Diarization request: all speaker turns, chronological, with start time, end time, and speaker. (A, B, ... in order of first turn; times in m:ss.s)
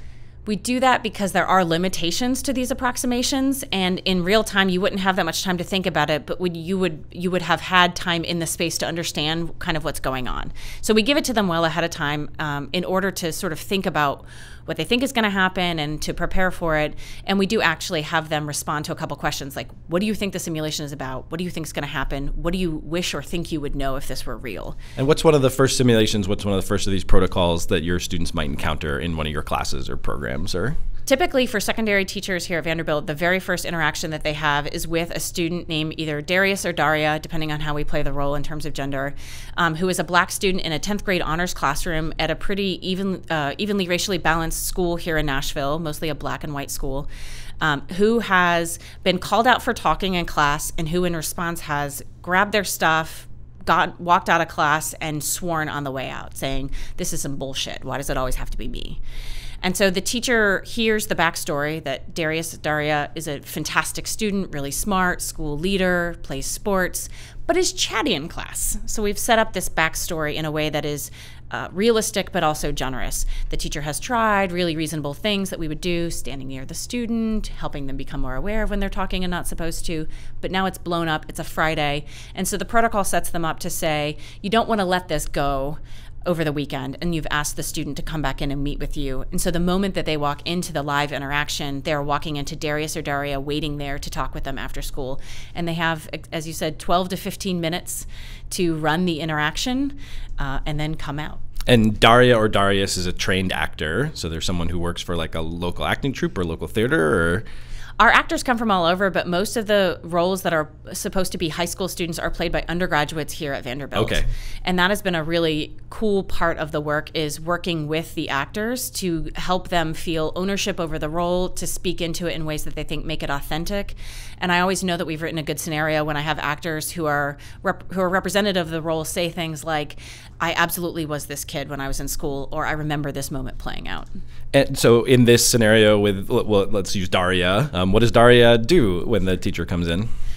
0:00.4-0:24.8 A
0:25.0-0:30.8 B
0:31.0-0:47.1 A
0:47.6-0:59.0 A
0:59.6-1:41.4 A
1:41.7-1:47.4 B
1:48.0-2:14.1 A
1:53.9-1:54.3 B
2:14.5-2:20.1 B